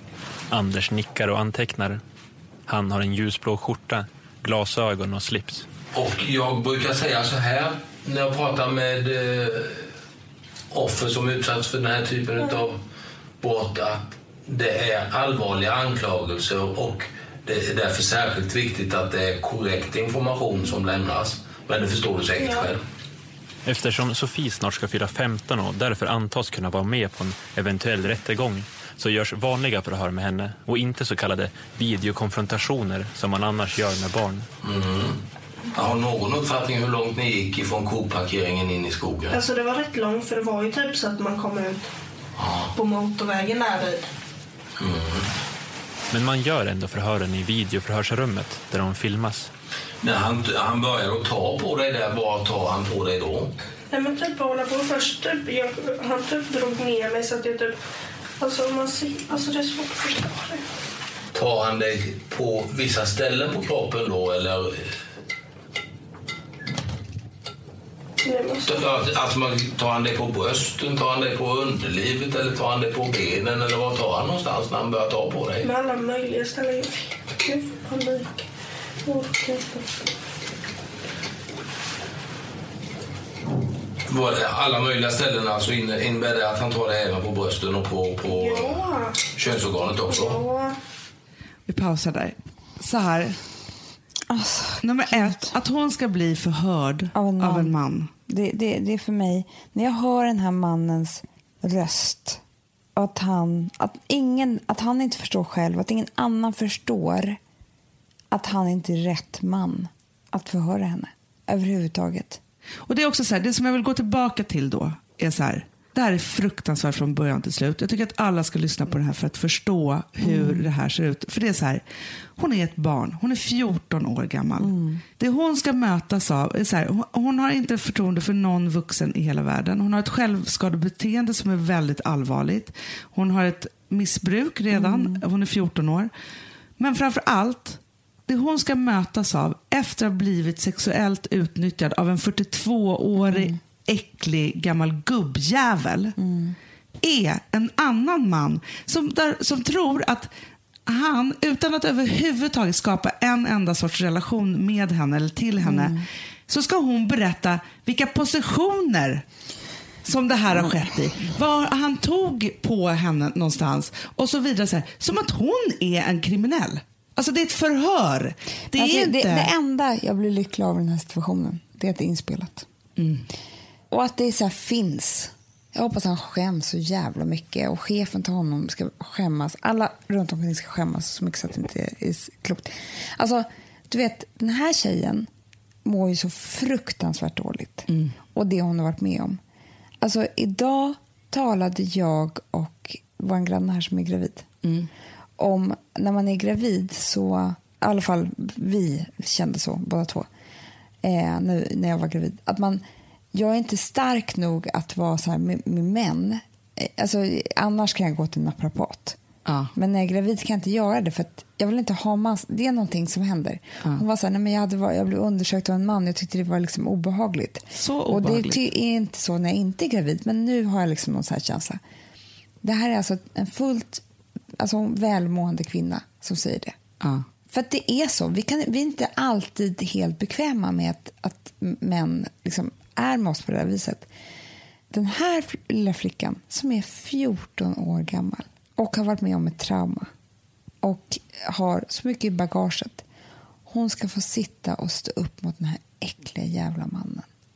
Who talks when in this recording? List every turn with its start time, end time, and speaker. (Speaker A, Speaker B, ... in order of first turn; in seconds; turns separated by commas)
Speaker A: 0.5-2.0, Speaker A: 2.7-5.7, Speaker B: 5.9-9.9, Speaker B: 10.7-12.8, Speaker B: 13.4-22.8, Speaker C: 22.4-22.7, Speaker A: 23.6-34.5, Speaker B: 34.6-35.2, Speaker B: 35.7-39.4, Speaker C: 39.3-41.9, Speaker B: 42.4-42.7, Speaker C: 42.7-44.1, Speaker B: 44.8-45.3, Speaker A: 46.1-49.5, Speaker B: 50.0-53.5, Speaker C: 53.9-57.8, Speaker C: 58.4-60.6, Speaker B: 61.3-64.9, Speaker C: 68.2-68.8, Speaker B: 68.7-75.7, Speaker C: 75.6-78.5, Speaker C: 79.0-79.9, Speaker B: 84.1-90.4, Speaker C: 88.2-89.3, Speaker C: 90.1-90.8, Speaker D: 91.7-93.4, Speaker E: 94.3-95.5, Speaker D: 94.8-98.1, Speaker E: 97.1-102.4, Speaker E: 103.0-107.4, Speaker E: 108.3-112.4, Speaker D: 112.9-121.8, Speaker E: 120.2-120.7, Speaker D: 122.4-136.1, Speaker E: 124.6-125.0, Speaker E: 134.7-135.2, Speaker D: 136.8-146.2, Speaker E: 143.2-143.6, Speaker E: 146.2-146.6, Speaker D: 147.0-150.3, Speaker D: 150.9-159.2, Speaker E: 155.6-156.1, Speaker D: 160.0-169.5, Speaker E: 168.7-172.7, Speaker D: 173.0-173.3, Speaker E: 173.9-185.3, Speaker E: 185.8-189.4, Speaker D: 187.9-188.2, Speaker E: 190.0-194.5, Speaker D: 194.6-194.9, Speaker E: 195.4-200.3, Speaker E: 201.0-209.2, Speaker D: 209.5-209.7, Speaker E: 209.8-221.8, Speaker D: 217.8-218.6, Speaker E: 222.6-224.0, Speaker E: 224.6-226.8, Speaker E: 227.5-234.1, Speaker E: 234.9-240.1, Speaker E: 240.8-243.1, Speaker E: 243.7-247.3